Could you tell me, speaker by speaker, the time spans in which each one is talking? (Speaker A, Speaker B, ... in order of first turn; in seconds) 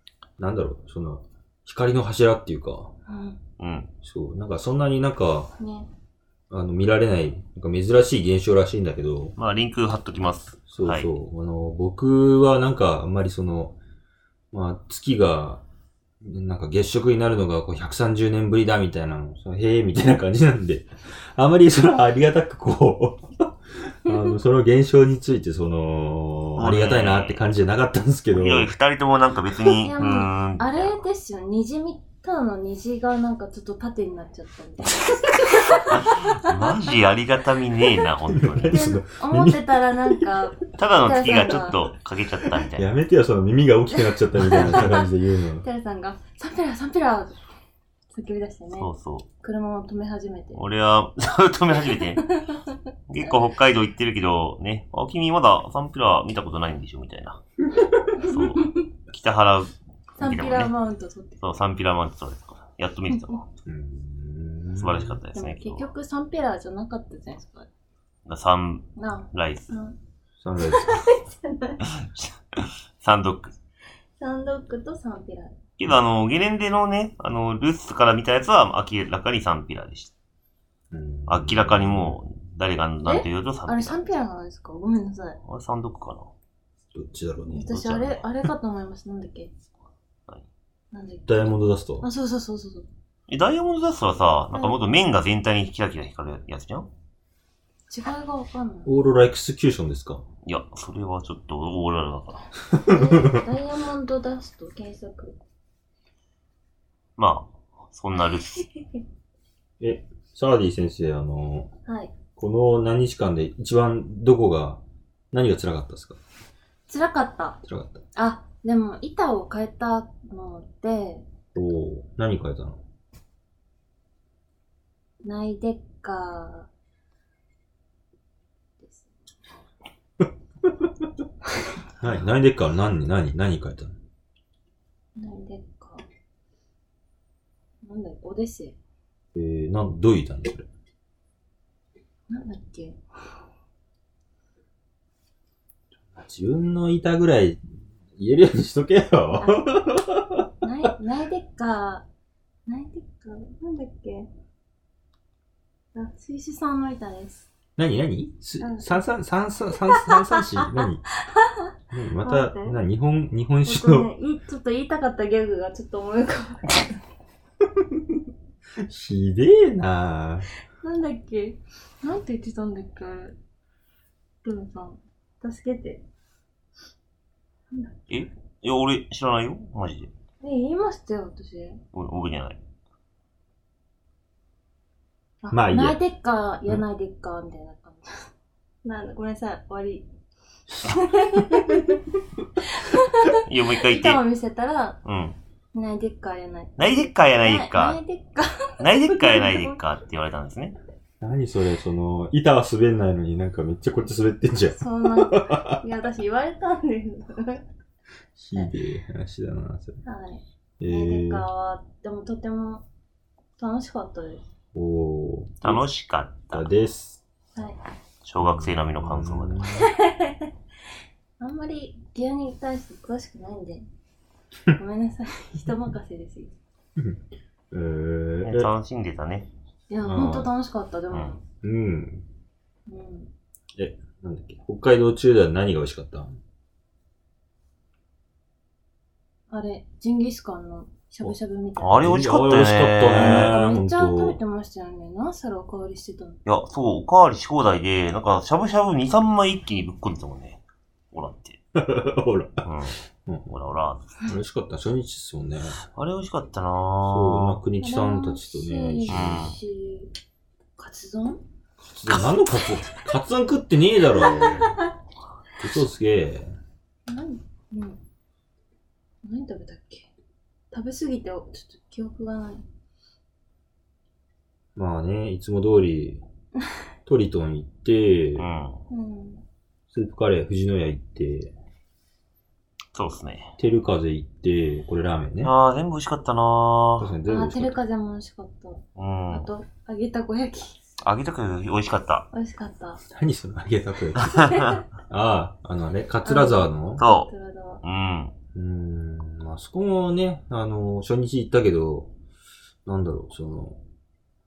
Speaker A: 0.4-2.9, 4.0-5.5, 6.5-9.3, 10.7-13.8, 14.5-15.6, 16.2-23.5, 24.0-28.7, 38.3-40.4, 42.5-45.6, 63.6-65.2, 70.4-71.0, 80.9-82.2, 86.9-87.7, 91.2-92.1, 98.8-100.2, 102.7-103.4, 109.8-111.7, 112.4-114.8, 115.3-116.2, 117.6-118.0, 121.5-122.8, 132.0-133.9, 139.3-140.7, 146.1-150.5, 157.8-161.0, 161.9-164.1, 168.8-170.5, 185.5-186.0, 201.2-205.8, 208.4-210.0, 210.8-211.5, 214.7-215.8, 216.5-217.2, 218.4-219.8, 227.0-228.7, 230.0-230.5, 231.6-232.2, 233.8-236.3, 242.0-244.4, 251.7-252.7, 254.2-255.8, 257.0-259.5, 261.8-264.8, 265.6-266.5, 274.7-276.2, 277.1-278.5, 279.9-281.5, 283.6-285.5, 287.0-287.8, 293.1-297.0, 298.5-302.1, 302.9-303.8
Speaker B: 3.1-3.4, 5.6-5.9, 29.8-36.9, 38.6-41.9, 44.4-45.1, 45.6-47.4, 48.1-50.6, 52.0-52.8, 58.2-58.8, 60.2-61.4, 63.1-63.4, 65.3-67.7, 69.0-70.0, 70.6-71.8, 74.2-75.6, 83.0-85.4, 87.5-89.5, 90.9-92.9, 94.5-94.8, 97.9-98.9, 102.8-105.4, 111.8-112.1, 116.9-117.6, 118.1-121.3, 125.2-126.7, 128.8-129.2, 135.2-136.0, 137.8-138.8, 142.3-143.0, 150.6-152.1, 152.7-154.3, 155.9-157.5, 158.6-159.0, 159.8-162.8, 163.6-167.0, 170.8-173.4, 174.4-176.0, 177.7-178.2, 180.4-181.8, 185.4-188.1, 188.8-190.1, 190.8-195.0, 195.7-199.8, 204.7-207.6, 210.0-212.8, 213.6-214.4, 217.5-217.8, 219.7-220.5, 221.4-223.8, 224.7-226.6, 229.9-231.4, 232.9-233.3, 239.5-242.1, 243.1-246.4, 257.8-260.1, 260.8-261.4, 264.2-264.7, 267.1-268.0, 269.2-270.1, 270.7-272.6, 278.9-279.4, 287.2-290.8, 292.3-293.0, 294.3-294.8, 296.2-297.8
Speaker C: 3.6-3.9, 9.4-11.1, 26.6-27.4, 28.3-31.0, 35.9-38.8, 40.7-42.9, 48.8-49.2, 50.5-52.2, 53.1-57.4, 58.1-60.7, 61.4-63.4, 64.8-65.9, 68.2-69.8, 71.9-73.5, 75.8-80.1, 81.3-84.0, 85.4-86.3, 87.7-88.2, 93.3-96.9, 100.4-102.5, 107.2-108.7, 178.1-180.1, 181.9-182.6, 193.4-194.2, 195.0-195.4, 196.8-198.0, 198.8-200.8, 215.6-216.7, 218.2-219.7, 228.4-229.5, 231.1-231.4, 241.8-243.6, 246.4-250.6, 251.1-251.6, 252.6-254.3, 255.8-257.6, 259.1-259.6, 278.4-278.8, 282.9-283.5, 285.4-287.1, 288.9-289.5, 291.0-292.3, 294.2-294.8, 297.0-297.3, 297.8-298.3